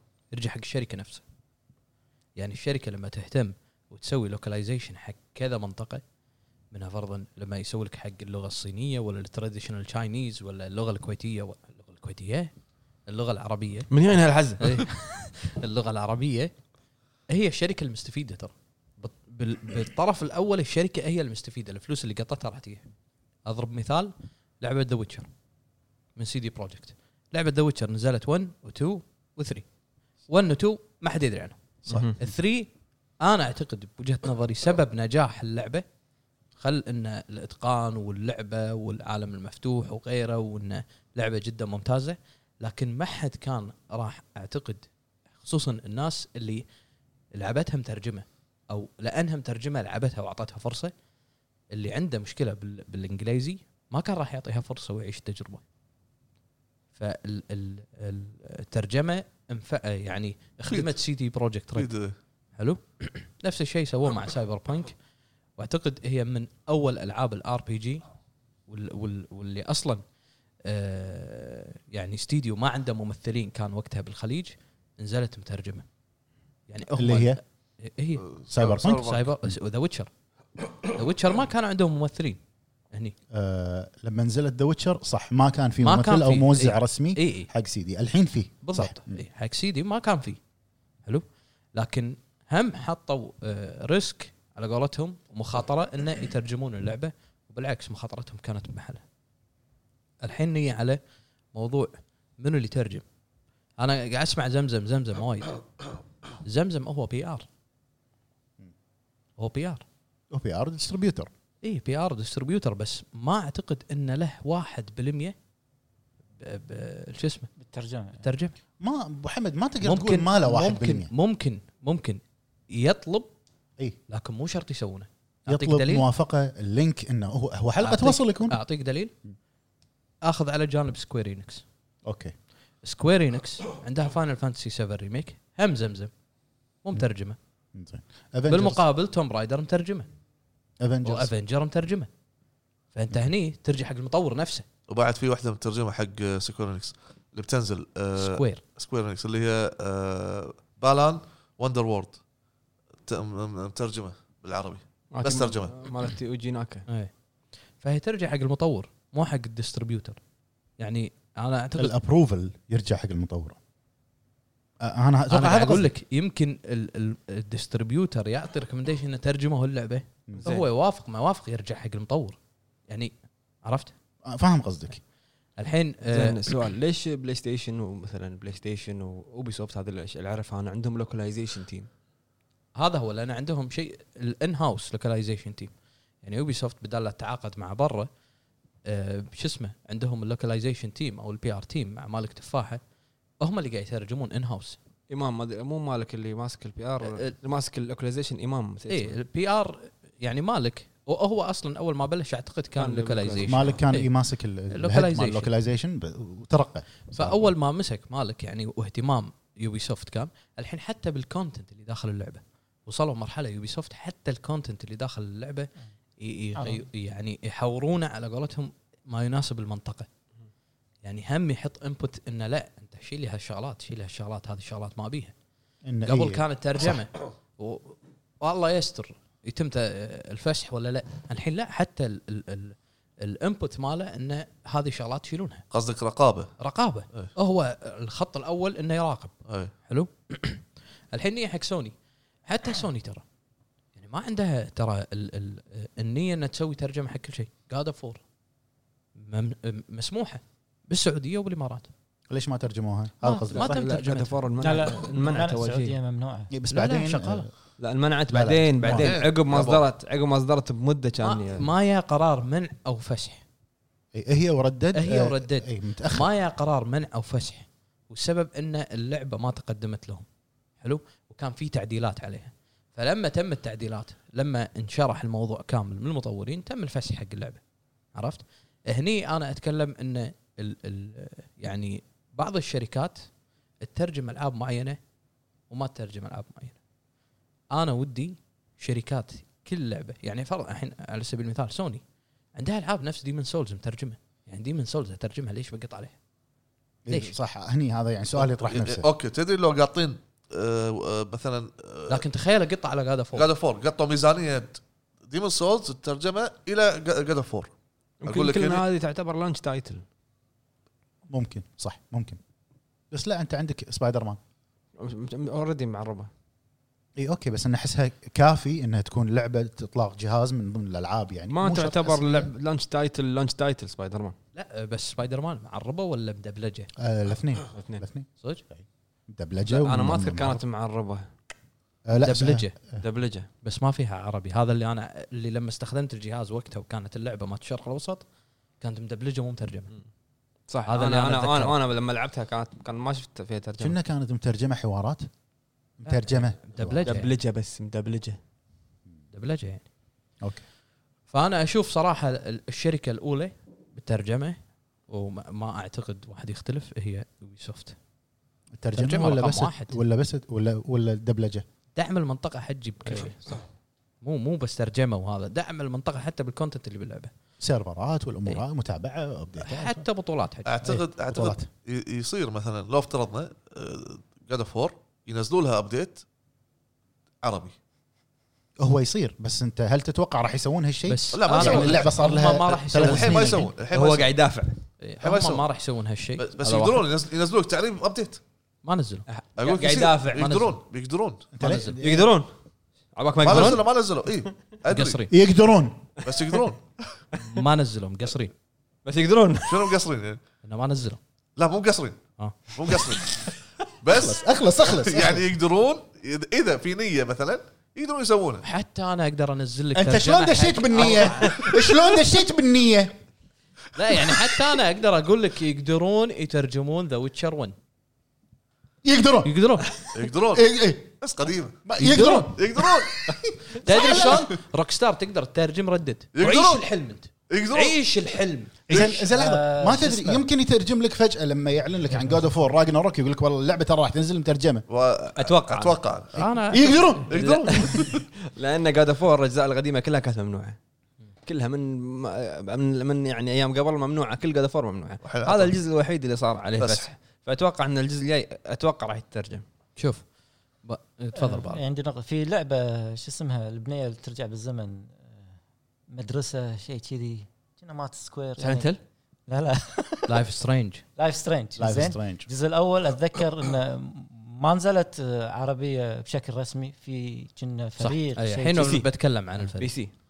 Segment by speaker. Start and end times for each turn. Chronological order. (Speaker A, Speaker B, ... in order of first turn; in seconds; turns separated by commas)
Speaker A: 0.3-1.2, Speaker A: 2.4-6.0, Speaker A: 6.7-12.5, Speaker A: 13.1-13.9, Speaker B: 13.9-14.8, Speaker A: 14.6-16.5, Speaker A: 17.3-22.9, Speaker A: 23.4-25.3, Speaker A: 26.1-29.6, Speaker A: 30.3-35.8, Speaker C: 31.9-32.1, Speaker B: 31.9-32.1, Speaker A: 36.6-44.9, Speaker A: 45.4-46.6, Speaker A: 47.3-50.9, Speaker A: 51.7-55.6, Speaker A: 56.9-61.9, Speaker C: 60.7-60.9, Speaker C: 61.7-62.1, Speaker A: 62.5-65.0, Speaker A: 65.6-68.0, Speaker A: 68.7-70.0, Speaker A: 70.6-75.8, Speaker A: 76.7-78.2, Speaker D: 76.9-77.4, Speaker C: 78.2-79.2, Speaker D: 78.5-79.0, Speaker A: 78.8-80.1, Speaker A: 80.9-82.4, Speaker D: 83.3-89.2, Speaker A: 85.8-87.5, Speaker A: 88.6-90.4, Speaker A: 91.0-99.0, Speaker A: 100.2-101.0, Speaker A: 101.5-103.0, Speaker A: 103.8-105.6, Speaker A: 106.4-107.5, Speaker A: 109.4-109.8, Speaker D: 110.3-111.3, Speaker A: 111.6-115.3, Speaker A: 116.4-117.5, Speaker E: 117.6-118.2, Speaker A: 118.2-118.5, Speaker D: 118.8-121.1, Speaker A: 119.8-123.3, Speaker A: 124.1-126.0, Speaker D: 125.5-128.6, Speaker A: 127.8-129.1, Speaker A: 130.2-131.6, Speaker D: 132.1-132.3, Speaker A: 132.8-136.1, Speaker A: 136.8-137.4, Speaker D: 137.7-138.8, Speaker A: 138.5-140.1, Speaker D: 140.8-141.3, Speaker A: 141.0-142.1, Speaker A: 142.9-144.7, Speaker C: 144.9-152.2, Speaker A: 148.2-148.6, Speaker C: 153.0-155.8, Speaker B: 155.1-156.8, Speaker A: 157.8-160.2, Speaker A: 160.8-161.9, Speaker D: 161.8-163.6, Speaker D: 164.8-165.9, Speaker A: 165.3-173.9, Speaker B: 170.4-170.7, Speaker D: 174.2-175.0, Speaker A: 175.6-176.4, Speaker B: 176.1-181.9, Speaker A: 182.8-188.1, Speaker A: 188.8-192.8, Speaker A: 193.4-194.8, Speaker B: 195.1-199.2, Speaker A: 197.0-197.3, Speaker A: 198.9-204.1, Speaker B: 202.8-203.8, Speaker D: 203.4-207.5, Speaker A: 204.7-205.5, Speaker A: 207.1-220.1, Speaker E: 216.6-216.8, Speaker A: 221.0-225.3, Speaker D: 225.8-226.9, Speaker A: 226.1-235.7, Speaker C: 235.7-236.5, Speaker A: 236.6-243.2, Speaker C: 239.4-239.7, Speaker A: 243.9-248.2, Speaker A: 249.2-251.9, Speaker D: 252.3-253.8, Speaker A: 253.2-254.4, Speaker B: 253.5-256.0, Speaker E: 254.6-256.5, Speaker D: 256.5-257.5, Speaker A: 256.7-257.5, Speaker B: 257.8-261.7, Speaker D: 258.3-259.1, Speaker C: 258.8-259.8, Speaker A: 261.2-263.4, Speaker D: 264.1-266.3, Speaker A: 264.9-270.2, Speaker A: 270.8-277.6, Speaker A: 278.1-283.2, Speaker A: 283.8-285.0, Speaker A: 285.7-286.8, Speaker A: 287.7-292.0, Speaker A: 292.5-296.1, Speaker D: 297.0-299.1, Speaker C: 298.5-302.2, Speaker A: 302.1-303.5, Speaker C: 303.3-307.7, Speaker B: 308.2-310.0, Speaker C: 308.2-308.8, Speaker D: 311.3-312.4, Speaker D: 313.1-314.4, Speaker B: 315.0-316.3, Speaker D: 317.2-322.5, Speaker B: 321.5-324.3, Speaker A: 324.5-326.9, Speaker D: 327.0-330.6, Speaker B: 327.7-328.0, Speaker B: 329.6-331.3, Speaker D: 332.1-333.0, Speaker A: 332.2-332.7, Speaker B: 333.0-333.5, Speaker A: 333.6-338.2, Speaker A: 338.8-339.9, Speaker B: 340.7-344.0, Speaker A: 340.9-341.8, Speaker D: 343.8-345.3, Speaker D: 346.0-347.2, Speaker A: 346.0-347.3, Speaker B: 347.0-348.4, Speaker A: 349.3-349.8, Speaker A: 351.3-357.9, Speaker D: 358.8-361.6, Speaker A: 358.9-360.0, Speaker A: 361.9-363.5, Speaker B: 363.1-363.6, Speaker A: 364.2-367.3, Speaker D: 367.6-370.0, Speaker A: 369.6-370.9, Speaker C: 370.6-376.2, Speaker D: 370.8-371.7, Speaker C: 377.4-377.8, Speaker D: 378.8-383.7, Speaker A: 381.1-383.7, Speaker C: 381.3-384.3, Speaker B: 383.9-384.8, Speaker A: 385.0-387.1, Speaker C: 385.2-385.6, Speaker C: 386.4-388.4, Speaker A: 388.8-389.3, Speaker B: 389.3-390.6, Speaker C: 389.6-391.5, Speaker A: 390.4-390.7, Speaker D: 391.5-392.3, Speaker A: 391.6-392.0, Speaker B: 392.0-392.5, Speaker B: 393.1-393.9, Speaker C: 393.4-395.2, Speaker A: 393.5-393.8, Speaker A: 394.9-395.3, Speaker D: 395.3-396.1, Speaker C: 396.2-397.1, Speaker A: 397.4-398.5, Speaker B: 399.0-400.0, Speaker C: 399.7-400.4, Speaker A: 400.6-401.2, Speaker C: 401.6-403.3, Speaker A: 402.4-402.7, Speaker C: 404.0-408.6, Speaker D: 404.1-405.4, Speaker A: 408.6-412.2, Speaker D: 409.9-413.1, Speaker A: 413.9-417.8, Speaker D: 419.0-419.5, Speaker A: 419.4-420.0, Speaker C: 420.1-420.7, Speaker D: 420.5-421.1, Speaker C: 421.2-423.3, Speaker D: 421.8-424.4, Speaker A: 422.0-422.5, Speaker A: 423.7-428.8, Speaker C: 423.9-424.5, Speaker C: 426.3-426.9, Speaker C: 427.5-428.0, Speaker D: 428.9-434.8, Speaker E: 429.0-430.4, Speaker C: 434.9-436.5, Speaker B: 435.4-436.0, Speaker A: 436.4-437.1, Speaker D: 436.7-438.0, Speaker C: 437.3-437.8, Speaker B: 437.3-440.8, Speaker B: 441.4-449.6, Speaker C: 445.2-445.8, Speaker C: 446.8-447.1, Speaker A: 449.9-450.2, Speaker A: 450.8-451.8, Speaker E: 451.3-455.4, Speaker E: 456.1-458.9, Speaker B: 458.6-459.0, Speaker E: 459.5-460.4, Speaker A: 460.3-461.0, Speaker E: 461.2-469.0, Speaker D: 461.8-462.5, Speaker A: 468.0-470.0, Speaker B: 468.8-469.1, Speaker B: 469.7-470.1